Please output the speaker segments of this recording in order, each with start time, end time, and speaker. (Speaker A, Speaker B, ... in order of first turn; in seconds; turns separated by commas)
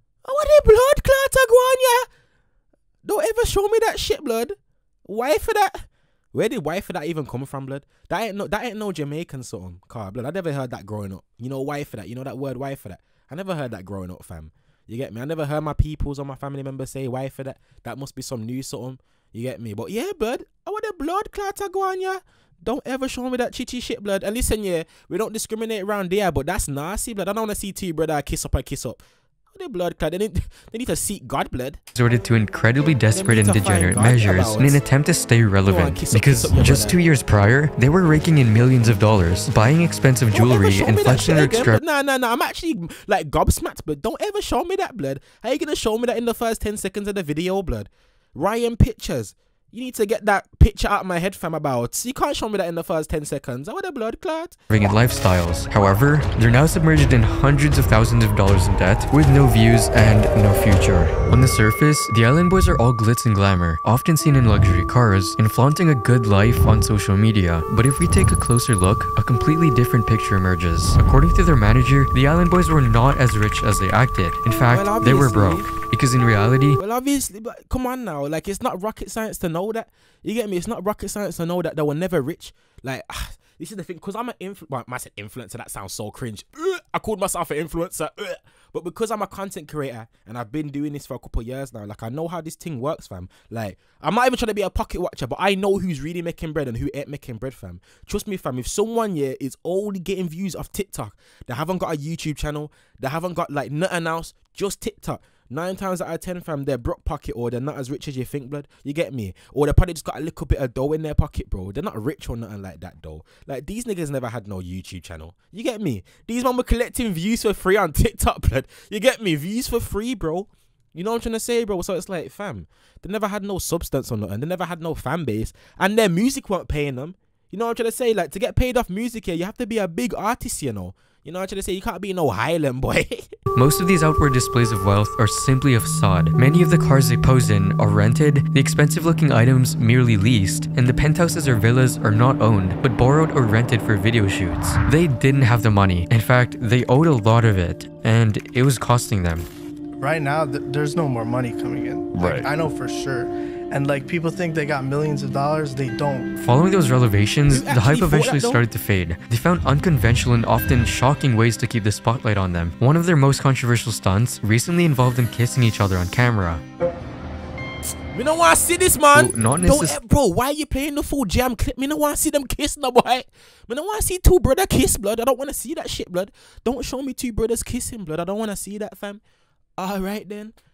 Speaker A: 0.3-2.0, Speaker A: 3.0-29.0, Speaker A: 29.5-31.8, Speaker B: 31.9-41.8, Speaker A: 33.1-34.8, Speaker A: 35.7-37.0, Speaker A: 40.3-54.6, Speaker B: 54.7-76.8, Speaker A: 74.7-75.7, Speaker A: 76.8-133.3, Speaker B: 133.6-149.5, Speaker C: 150.0-156.3, Speaker B: 156.4-166.6, Speaker A: 157.5-158.6, Speaker A: 168.1-179.2, Speaker B: 169.1-170.0, Speaker A: 179.8-180.5